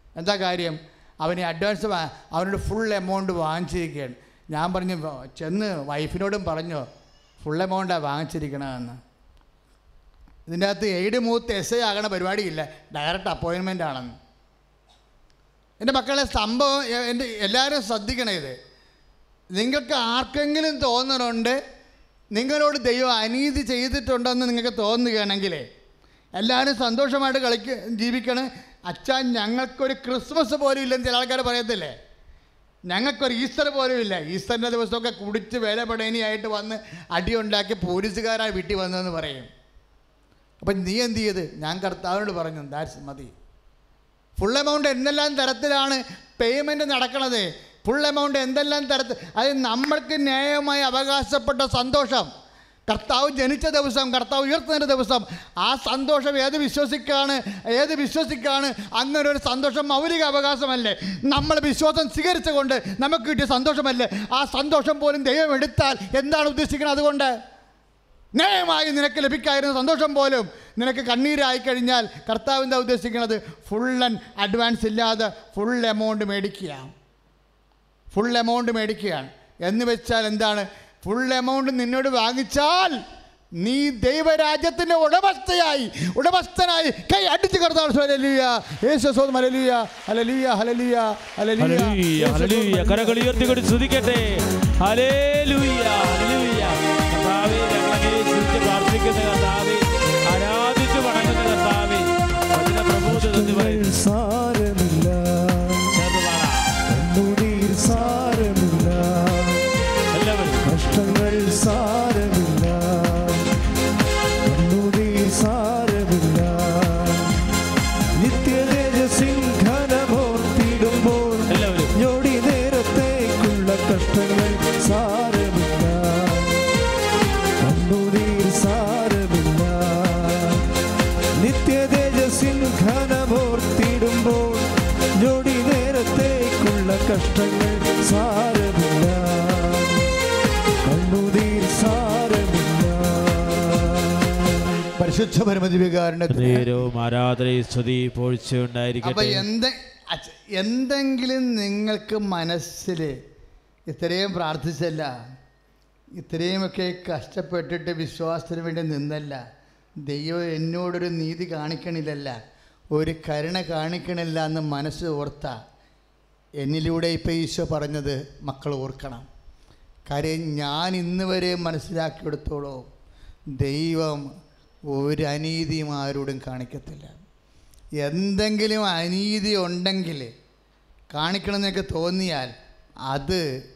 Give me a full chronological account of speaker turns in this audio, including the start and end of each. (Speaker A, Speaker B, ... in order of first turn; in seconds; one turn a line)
Speaker A: 0.2-6.8
Speaker A: 7.4-9.0
Speaker A: 10.5-14.1
Speaker A: 15.8-18.5
Speaker A: 19.5-21.6
Speaker A: 22.3-25.6
Speaker A: 26.4-31.9
Speaker A: 32.9-39.5
Speaker A: 40.6-43.3
Speaker A: 44.4-52.3
Speaker A: 52.9-67.3
Speaker A: 68.3-76.9
Speaker A: 78.1-83.0
Speaker A: 83.6-93.2
Speaker B: 91.6-103.9
Speaker C: 103.0-105.9
Speaker B: 105.9-106.6
Speaker C: 106.9-109.7
Speaker B: 110.1-110.6
Speaker C: 110.6-113.5
Speaker C: 114.4-117.4
Speaker C: 118.2-126.7
Speaker B: 121.5-121.9
Speaker C: 127.6-130.6
Speaker C: 131.4-140.1
Speaker C: 140.8-144.6
Speaker A: 145.0-146.7
Speaker B: 146.3-149.4
Speaker A: 149.0-153.2
Speaker A: 153.9-155.1
Speaker A: 156.2-159.4
Speaker A: 160.1-162.4
Speaker A: 162.9-165.6
Speaker A: 166.6-169.2
Speaker A: 170.1-172.8
Speaker A: 173.6-174.3
Speaker A: 174.9-177.2
Speaker A: 178.0-180.3
Speaker A: 181.1-182.5
Speaker A: 183.1-183.4